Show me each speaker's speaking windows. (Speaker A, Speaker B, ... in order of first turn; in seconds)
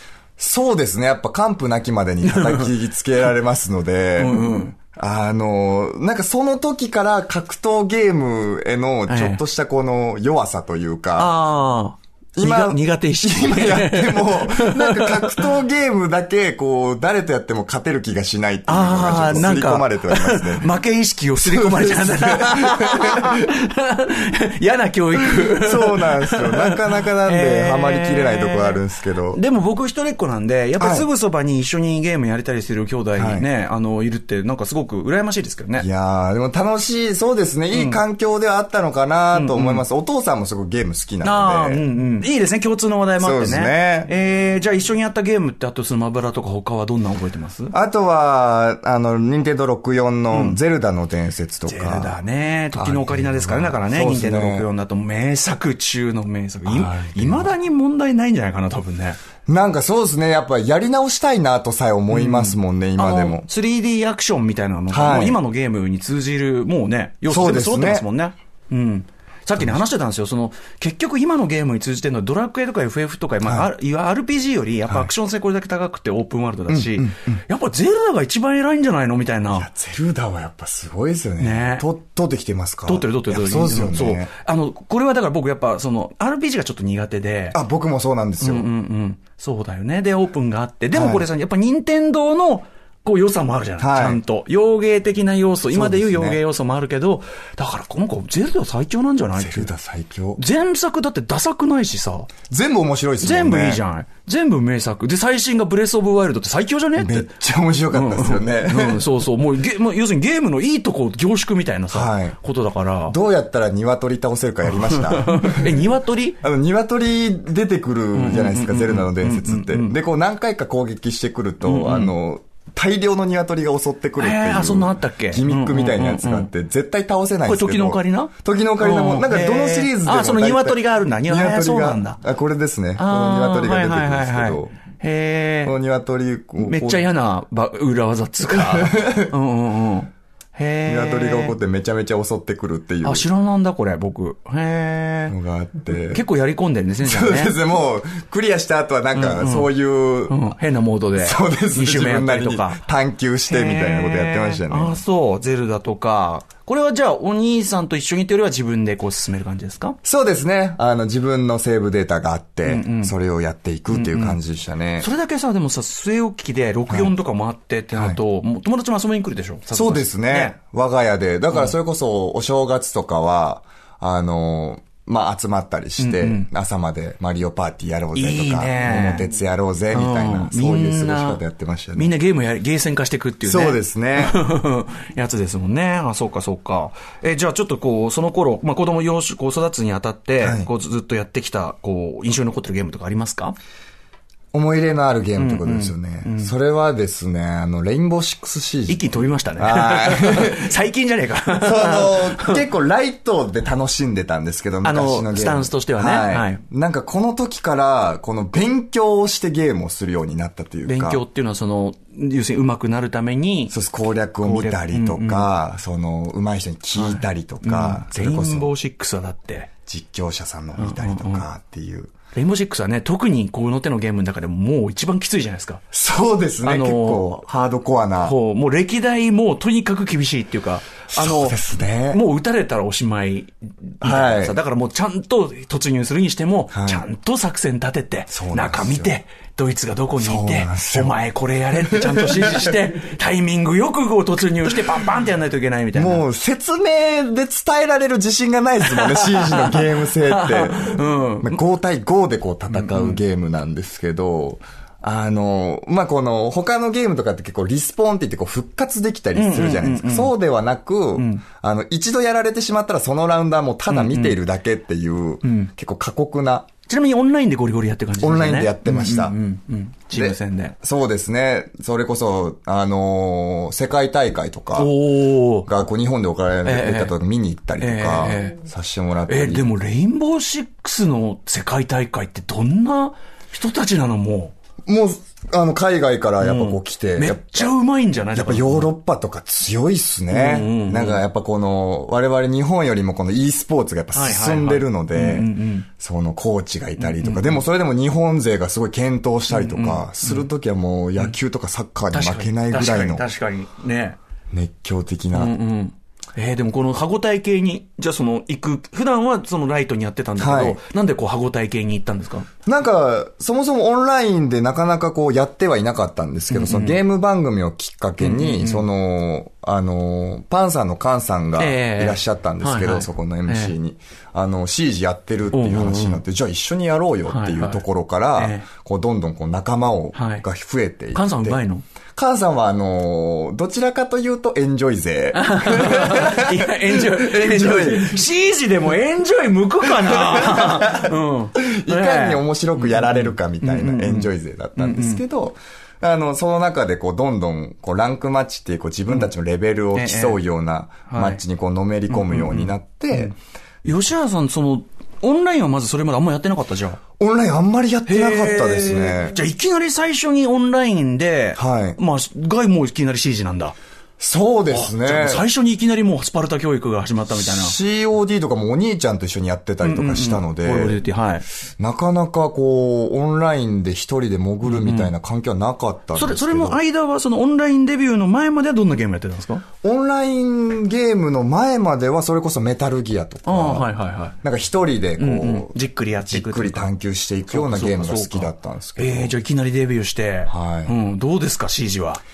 Speaker A: 0.4-11.3, 12.3-20.7, 21.4-23.5, 25.4-29.4, 30.8-31.1, 33.2-33.5, 35.8-41.8, 43.2-44.1, 47.7-52.2, 52.7-54.7, 56.7-57.5, 59.5-63.5, 64.9-65.4, 67.3-68.1, 69.6-69.8, 73.4-73.7, 76.7-77.4, 79.5-84.3, 87.5-88.7, 90.9-91.3, 93.8-94.2, 95.7-96.4, 99.4-100.4, 102.5-103.8, 107.0-109.0, 111.9-112.4, 113.1-115.8, 116.4-134.7, 135.6-137.1, 138.5-139.3, 140.9-143.3, 145.3-146.2, 147.0-150.4, 151.2-155.0, 160.0-165.1, 167.9-168.2, 169.7-182.1, 183.4-184.4, 190.4-190.7, 194.5-199.0, 199.6-200.7, 201.6-211.2, 213.7-218.7, 219.9-222.1, 225.9-228.4, 231.1-232.2, 234.0-234.6, 236.7-237.1, 238.3-239.1, 240.2-241.2, 241.9-242.8, 245.9-266.7, 268.2-269.4, 270.1-274.9, 275.6-279.7, 284.9-287.7, 288.3-303.3, 304.5-305.5, 310.4-310.8, 312.7-331.6, 332.2-338.2, 339.9-353.3, 357.2-359.4, 361.6-362.0, 364.2-365.4, 367.4-371.0, 371.8-376.8, 379.8-383.9, 384.4-385.8, 386.3-389.3, 390.5-390.9
Speaker B: 2.2-2.7, 4.2-4.8, 9.1-9.4, 11.2-15.5, 18.7-28.8, 29.3-35.9, 37.7-38.0, 39.3-39.8, 41.2-47.7, 50.3-50.6, 51.7-59.2, 62.1-79.7, 81.4-81.9, 82.9-87.6, 88.4-99.7, 100.4-102.3, 103.2-107.3, 107.9-113.2, 114.8-116.4, 118.1-120.0, 121.6-122.1, 124.2-126.5, 127.5-132.2, 133.0-135.8, 136.6-141.6, 143.0-145.3, 146.1-147.6, 149.1-149.7, 150.3-152.8, 153.5-160.0, 162.7-163.1, 163.9-164.4, 165.0-170.6, 176.0-176.5, 178.2-179.3, 179.9-181.4, 182.0-193.6, 195.4-196.5, 198.9-202.6, 204.8-206.6, 210.9-213.7, 214.4-215.5, 217.0-219.7, 220.8-221.4, 222.3-225.8, 226.6-227.3, 228.2-231.6, 232.1-246.2, 248.9-251.6, 252.7-253.2, 259.4-260.3, 261.2-261.4, 263.9-264.4, 265.4-265.7, 266.9-270.8, 274.8-275.7, 276.6-277.1, 277.8-278.6, 279.3-284.5, 286.4-288.9, 290.3-291.2, 294.1-295.9, 297.0-297.6, 299.5-300.5, 302.1-304.2, 305.3-312.5, 316.5-317.0, 318.2-318.9, 321.6-323.8, 325.5-326.2, 327.3-327.8, 328.4-328.7, 330.1-330.4, 331.1-331.8, 335.3-345.2, 349.9-350.4, 351.1-351.4, 352.1-357.0, 358.1-363.8, 364.7-367.8, 369.8-371.4, 374.6-375.1, 376.1-379.6, 383.5-384.4, 385.2-386.9, 387.5-392.2